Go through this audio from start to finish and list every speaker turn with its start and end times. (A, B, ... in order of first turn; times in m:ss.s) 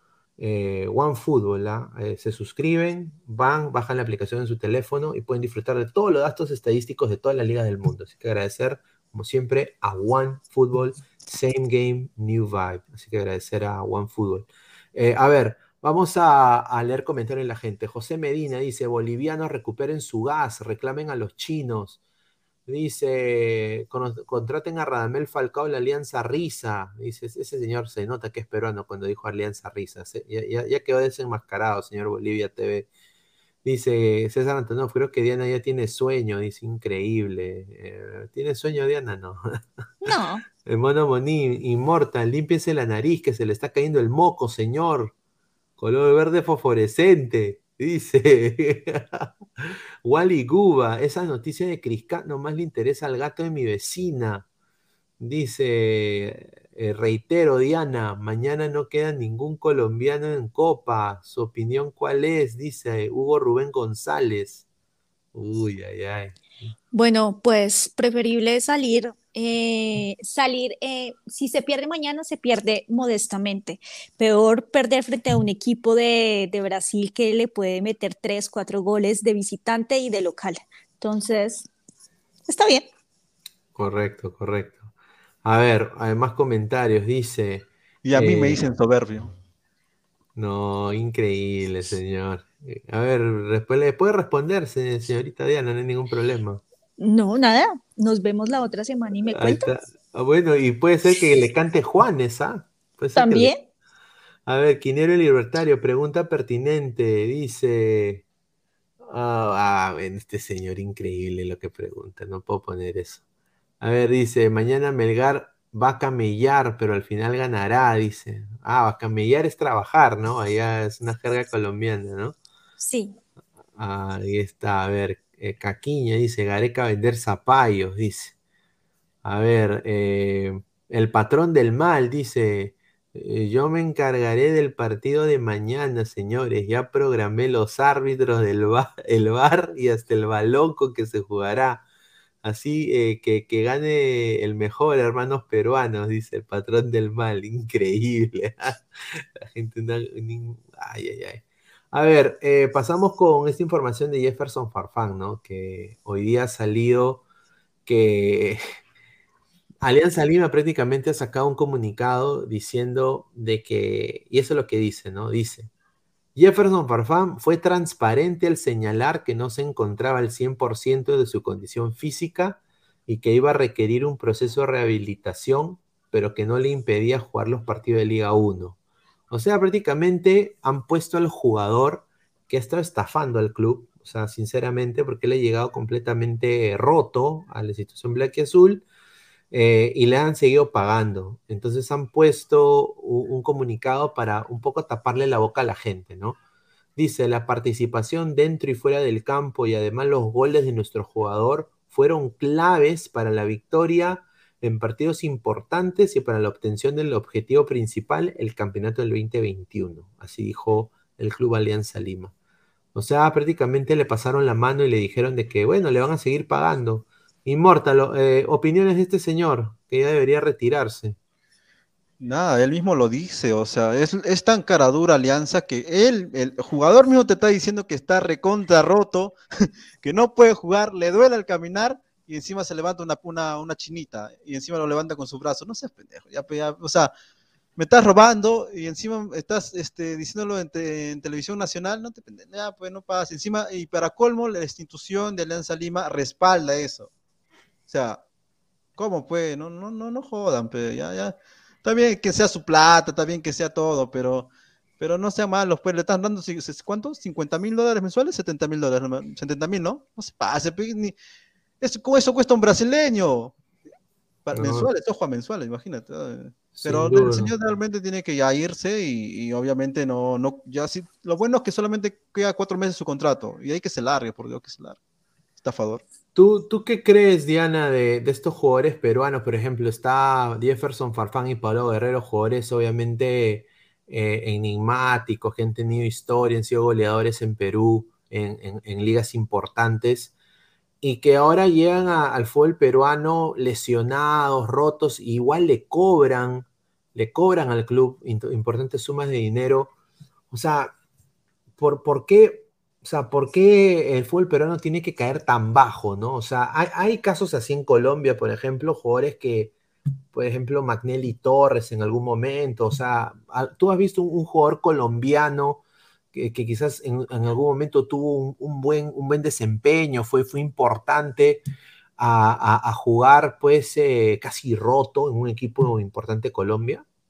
0:00.4-0:22.0 A
0:22.7-0:32.9 A
0:33.6-0:45.1 A
0:40.0-0:40.4 B
0:45.8-0:54.5 A
0:55.2-1:04.6 A
1:05.3-1:06.4 A
1:06.9-1:21.7 B
1:22.5-1:22.9 B
1:23.8-1:24.9 A
1:25.4-1:28.6 A
1:28.0-1:29.3 C
1:30.4-1:36.6 A
1:37.0-1:39.7 B
1:39.3-1:43.5 A
1:43.2-1:43.6 B
1:44.5-1:48.2 A
1:49.0-1:53.2 A
1:53.8-2:02.4 A
2:02.8-2:03.2 B
2:03.8-2:08.4 A
2:09.2-2:21.8 A
2:22.4-2:37.2 A
2:37.9-2:38.6 A
2:39.8-2:45.7 A
2:46.4-2:58.8 A
2:59.3-3:08.8 A
3:09.5-3:16.4 A
3:17.0-3:32.3 A
3:32.9-3:41.2 A
3:42.2-3:57.1 C
3:57.8-4:07.1 C
4:07.9-4:08.2 C
4:09.0-4:21.2 C
4:21.8-4:23.6 C
4:24.5-4:35.0 C
4:24.5-4:24.9 A
4:26.7-4:27.5 A
4:35.6-4:36.0 C
4:36.4-4:50.3 A
4:51.0-4:59.9 A
5:00.5-5:00.9 A
5:01.8-5:09.7 A
5:10.3-5:21.6 A
5:22.2-5:27.0 A